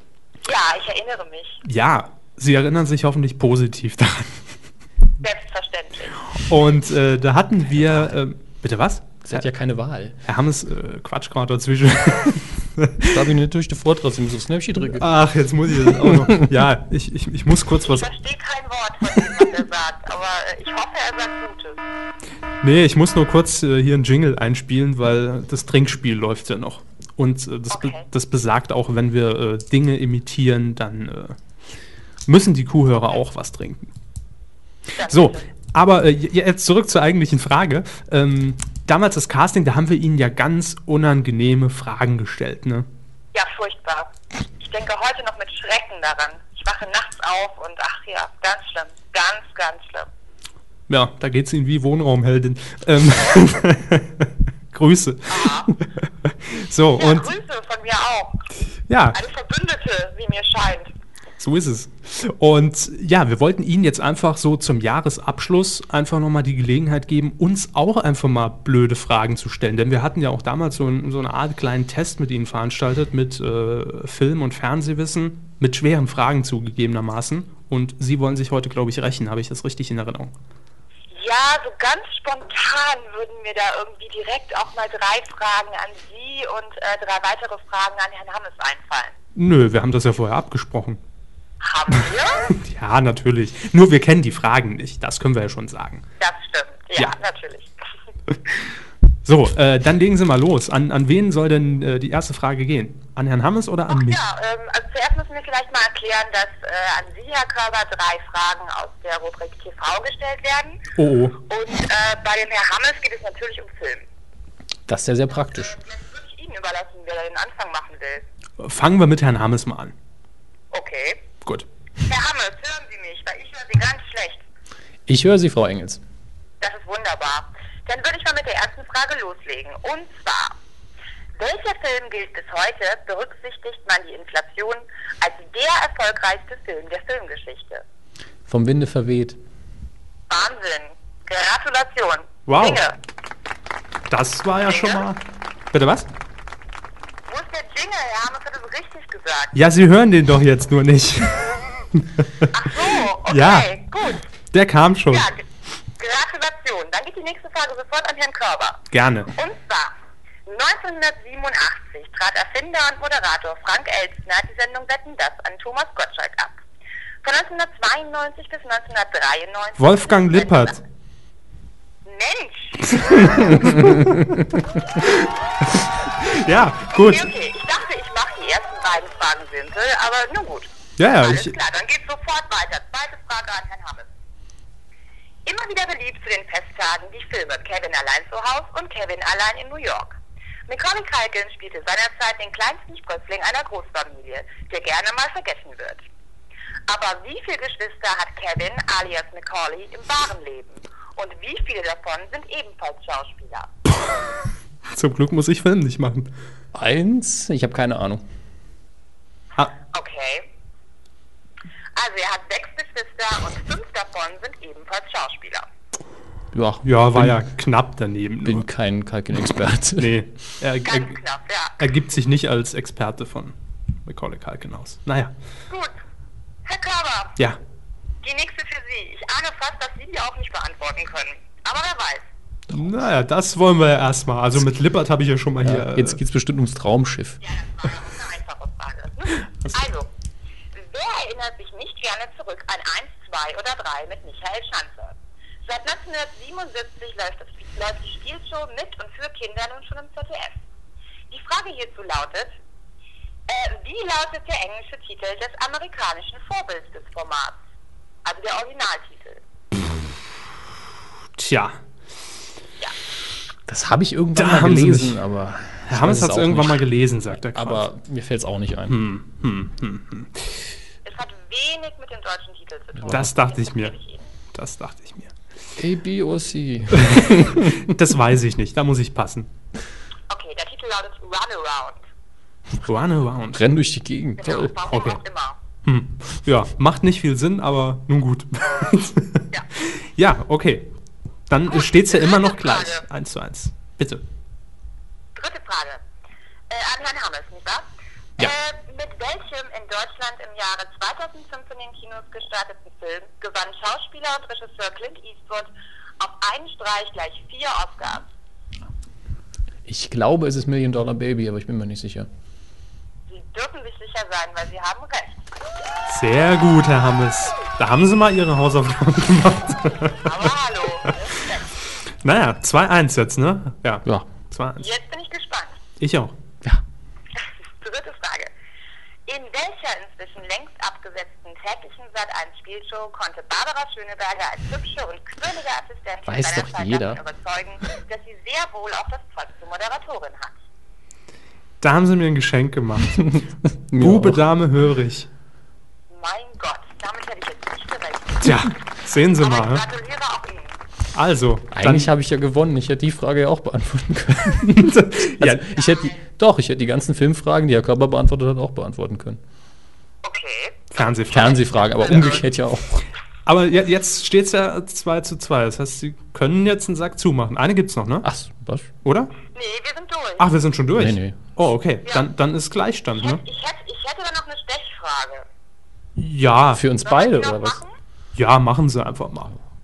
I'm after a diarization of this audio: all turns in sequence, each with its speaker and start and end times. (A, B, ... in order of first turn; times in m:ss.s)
0:00.4-0:01.6 A
0:01.6-0:04.4 B
0:05.2-0:06.3 A
0:06.3-0:09.4 B
0:09.2-0:10.2 C
0:10.2-0:13.3 B
0:13.0-0:15.1 C
0:14.9-0:18.1 B
0:16.0-0:16.4 C
0:17.8-0:21.8 A
0:22.6-0:31.4 B
0:27.7-0:28.0 A
0:32.2-0:33.9 B
0:35.0-0:35.4 A
0:35.1-0:42.9 B
0:43.3-0:50.1 A
0:50.9-0:57.3 B
0:55.3-0:55.7 A
0:57.0-0:58.4 A
0:58.9-0:59.2 B
0:59.1-1:00.9 A
1:01.4-1:20.3 B
1:21.1-1:29.1 A
1:29.3-1:31.0 B
1:31.6-1:32.5 A
1:32.5-1:36.0 B
1:36.2-1:37.8 A
1:39.2-1:44.2 B
1:43.9-1:50.8 A
1:51.0-1:51.4 B
1:51.5-1:54.0 A
1:54.9-1:55.8 C
1:55.5-1:58.2 A
1:58.6-1:59.9 B
2:00.7-2:01.2 A
2:02.0-2:04.4 A
2:05.1-2:06.0 C
2:06.6-2:10.5 A
2:11.4-2:17.8 A
2:18.5-2:19.4 C
2:20.3-2:23.0 A
2:22.5-2:22.8 B
2:24.1-2:26.1 B
2:24.6-2:25.0 A
2:27.3-2:29.5 A
2:29.5-2:32.5 B
2:32.5-2:34.2 A
2:33.3-2:33.7 B
2:34.5-2:35.3 B
2:35.1-2:35.4 A
2:36.0-2:39.9 A
2:38.9-2:39.3 B
2:40.4-2:46.5 A
2:47.2-2:50.8 A
2:49.8-2:50.8 B
2:52.0-2:53.7 A
2:53.3-2:54.2 B
2:53.8-2:54.5 C
2:55.0-2:55.2 B
2:55.8-2:57.3 B
2:57.0-3:04.1 A
3:01.0-3:01.6 B
3:05.4-3:16.0 A
3:16.9-3:23.7 A
3:24.8-3:26.3 B
3:26.7-3:28.2 C
3:29.9-3:30.5 A
3:31.9-3:35.6 A
3:36.5-3:37.4 C
3:36.8-3:38.7 B
3:38.4-3:40.2 C
3:40.0-3:41.2 B
3:40.8-3:41.8 A
3:41.8-3:45.3 B
3:45.7-3:46.0 A
3:46.6-3:47.4 A
3:48.2-3:52.3 A
3:52.7-3:56.2 B
3:55.6-3:57.4 C
3:57.5-4:00.1 A
4:00.7-4:10.6 A
4:11.3-4:12.6 A
4:13.5-4:17.6 A
4:18.2-4:19.4 A
4:21.4-4:21.8 B
4:23.7-4:29.0 C
4:24.4-4:25.2 B
4:25.9-4:27.8 B
4:28.9-4:30.6 B
4:31.0-4:34.3 A
4:33.1-4:34.0 B
4:34.5-4:35.3 B
4:35.8-4:37.8 C
4:37.0-4:39.5 B
4:40.3-4:42.0 A
4:42.8-4:43.6 B
4:43.5-4:44.7 C
4:44.4-4:45.6 A
4:44.9-4:45.2 B
4:45.8-4:50.9 B
4:51.5-4:54.2 B
4:51.7-4:53.0 A
4:55.3-4:56.0 A
4:56.7-4:57.9 A
4:58.4-5:08.3 A
5:09.8-5:12.3 C
5:13.3-5:15.4 A
5:16.0-5:21.2 B
5:20.2-5:21.7 A
5:22.2-5:24.9 B
5:24.8-5:25.8 A
5:26.0-5:26.3 B
5:27.4-5:28.5 A
5:29.2-5:40.6 A
5:36.2-5:37.2 C
5:41.8-5:43.4 B
5:43.3-5:44.4 C
5:44.0-5:45.3 B
5:46.1-5:48.6 A
5:48.4-5:49.8 B
5:49.4-5:50.8 A
5:51.1-5:52.1 B
5:51.7-5:59.4 C
5:54.7-5:55.6 B
5:55.7-5:56.2 A
6:00.2-6:01.0 A
6:00.9-6:02.5 B
6:01.3-6:03.0 C
6:01.6-6:02.4 A
6:03.4-6:08.2 B
6:08.2-6:08.9 C
6:09.0-6:09.3 B
6:09.5-6:10.5 A
6:10.4-6:13.4 B
6:10.9-6:11.4 C
6:13.2-6:15.4 A
6:16.2-6:16.8 B
6:16.7-6:17.8 C
6:17.0-6:17.9 A
6:18.3-6:19.5 B